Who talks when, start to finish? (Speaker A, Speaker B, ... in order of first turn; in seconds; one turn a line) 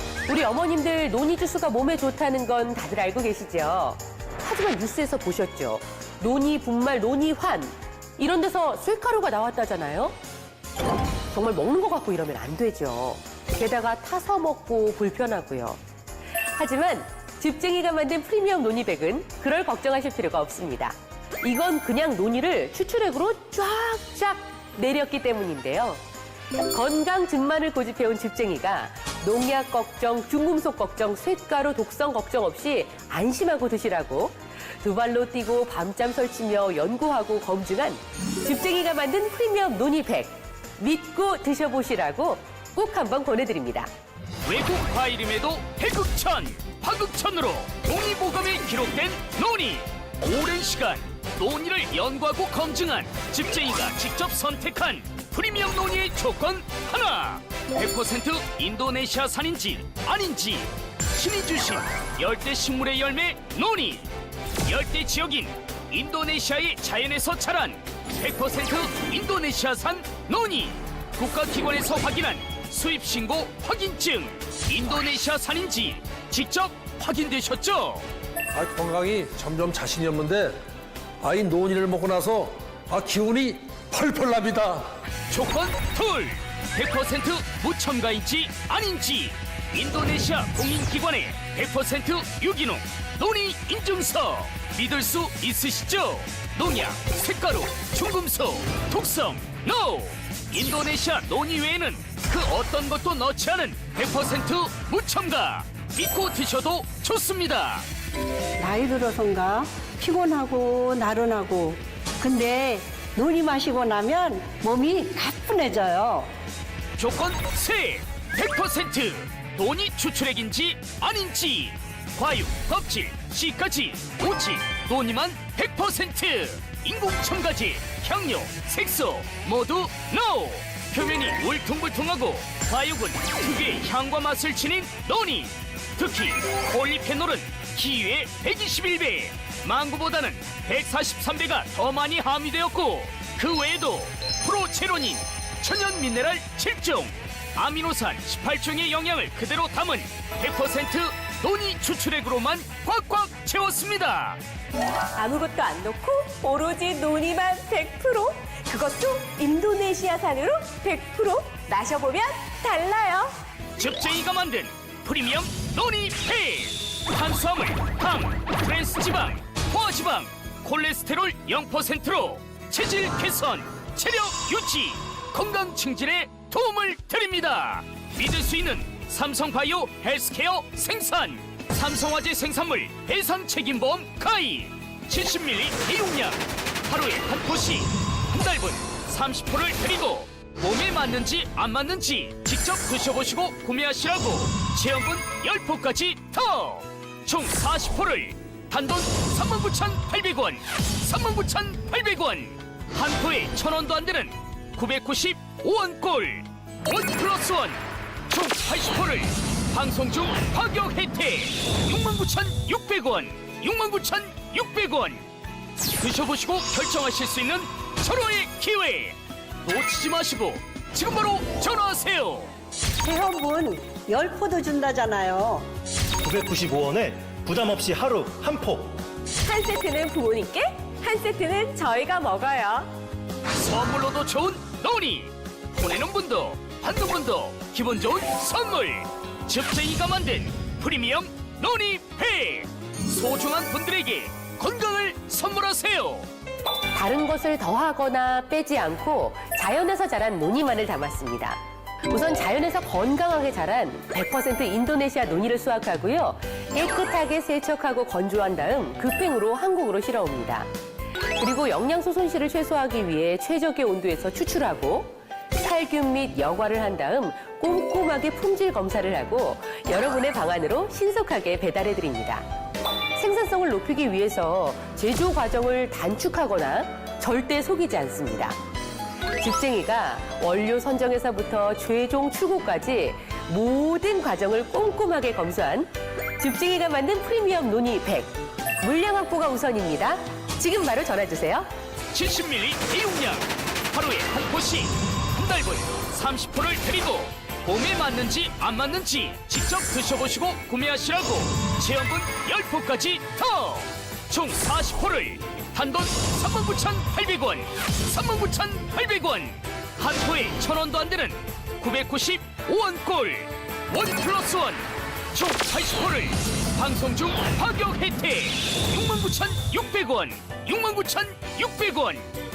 Speaker A: 0.3-10.2
Speaker A: 11.3-15.8
Speaker A: 16.5-26.0
Speaker A: 26.7-43.9
Speaker B: 44.5-64.1
Speaker B: 64.6-78.0
Speaker C: 78.5-80.6
Speaker C: 81.2-84.9
Speaker B: 85.3-107.9
Speaker D: 108.6-116.3
Speaker B: 117.0-154.4
Speaker A: 155.1-163.3
Speaker B: 163.8-215.2
Speaker B: 216.0-222.5
Speaker D: 223.0-225.7
Speaker E: 226.2-229.0
Speaker A: 229.4-232.9
Speaker B: 233.5-246.3
Speaker A: 246.9-251.6
Speaker A: 252.1-260.7
Speaker A: 261.4-272.4
Speaker A: 273.2-278.6
Speaker A: 279.4-291.7
Speaker B: 292.1-322.3